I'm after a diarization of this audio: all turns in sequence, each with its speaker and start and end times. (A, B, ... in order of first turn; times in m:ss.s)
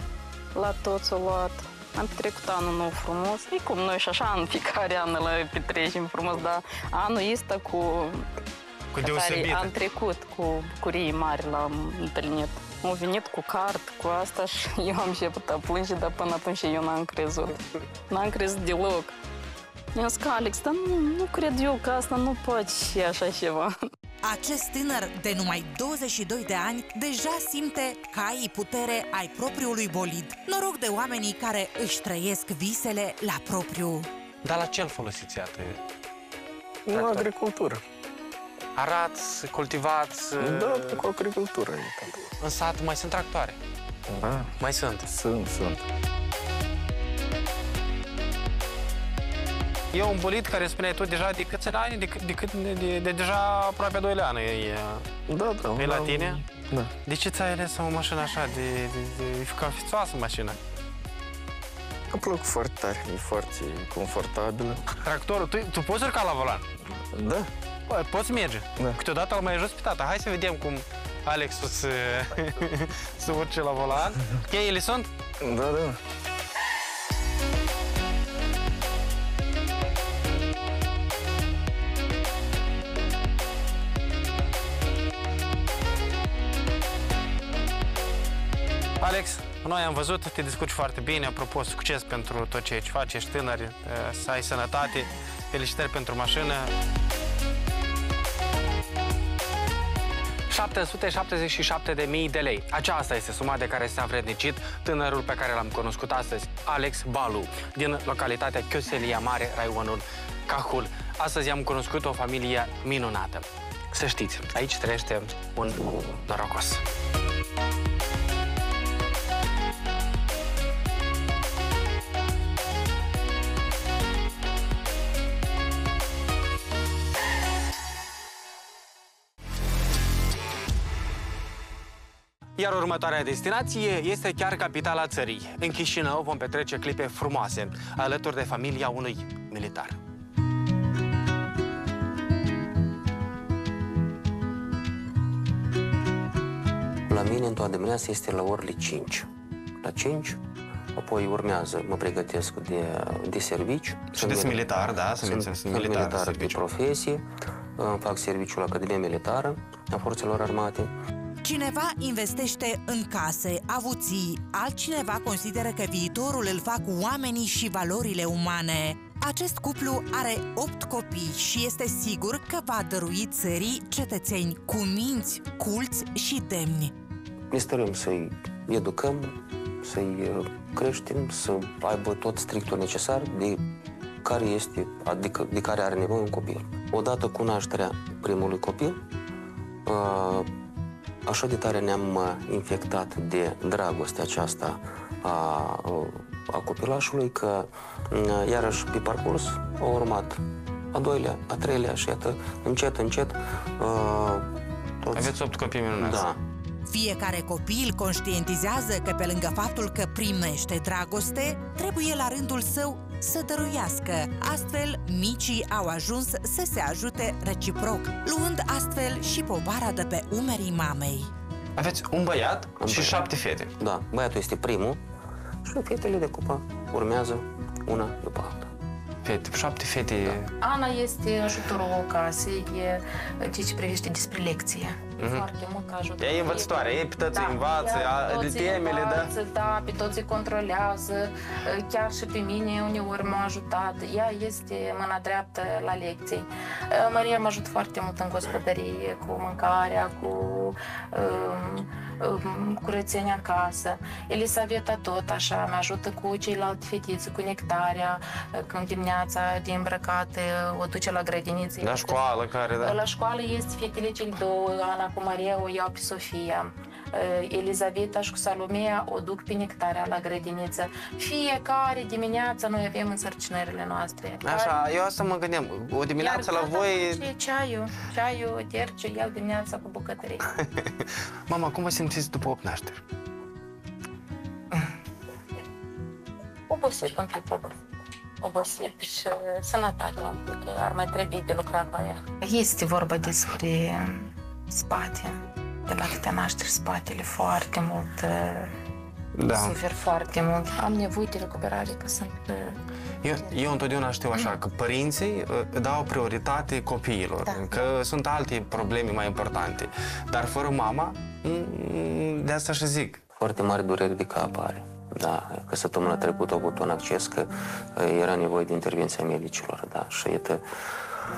0:00.5-0:08.3 A
0:08.9-0:09.7 B
0:09.0-0:19.1 A
0:19.9-0:23.7 A
0:24.2-0:34.1 C
0:34.4-0:35.8 B
0:36.8-0:37.8 D
0:36.9-0:37.3 B
0:38.8-0:41.0 B
0:40.4-0:42.2 D
0:42.4-0:43.6 B
0:44.1-0:44.5 D
0:44.6-0:45.1 B
0:45.0-0:45.8 D
0:49.9-0:55.1 B
0:55.3-0:56.9 D
0:55.7-0:56.5 B
0:57.0-1:00.6 B
1:02.1-1:04.8 D
1:05.0-1:06.6 B
1:07.0-1:07.5 D
1:07.9-1:15.1 B
1:15.4-1:16.0 D
1:29.0-1:36.7 B
1:40.5-1:56.8 B
2:12.6-2:20.0 B
2:27.1-2:29.3 E
2:29.8-2:30.4 E
2:30.9-2:37.2 E
2:34.1-2:36.6 B
2:37.8-2:40.9 E
2:41.4-2:56.9 C
2:57.5-3:03.6 E
3:04.2-3:09.0 E
3:09.8-3:10.5 E
3:11.2-3:20.4 E
3:20.9-3:24.5 E
3:25.0-3:25.4 E
3:25.1-3:26.3 B
3:26.0-3:26.4 E
3:26.8-3:41.3 C
3:41.8-3:43.7 B
3:42.8-3:43.3 E
3:43.8-3:45.0 E
3:45.6-3:48.7 E
3:49.2-3:50.5 B
3:50.6-4:22.2 F
3:55.2-3:55.4 B
3:56.2-3:59.3 B
4:21.8-4:23.0 B
4:22.8-4:34.8 F
4:34.4-4:37.2 B
4:36.2-4:40.5 F
4:40.6-4:40.9 B
4:41.5-4:43.0 B
4:46.7-4:47.7 F
4:48.4-4:58.7 F
4:59.3-4:59.8 B
4:59.5-5:02.8 F
5:03.2-5:13.2 B
5:03.3-5:03.7 F
5:07.4-5:07.9 F
5:13.4-5:20.6 E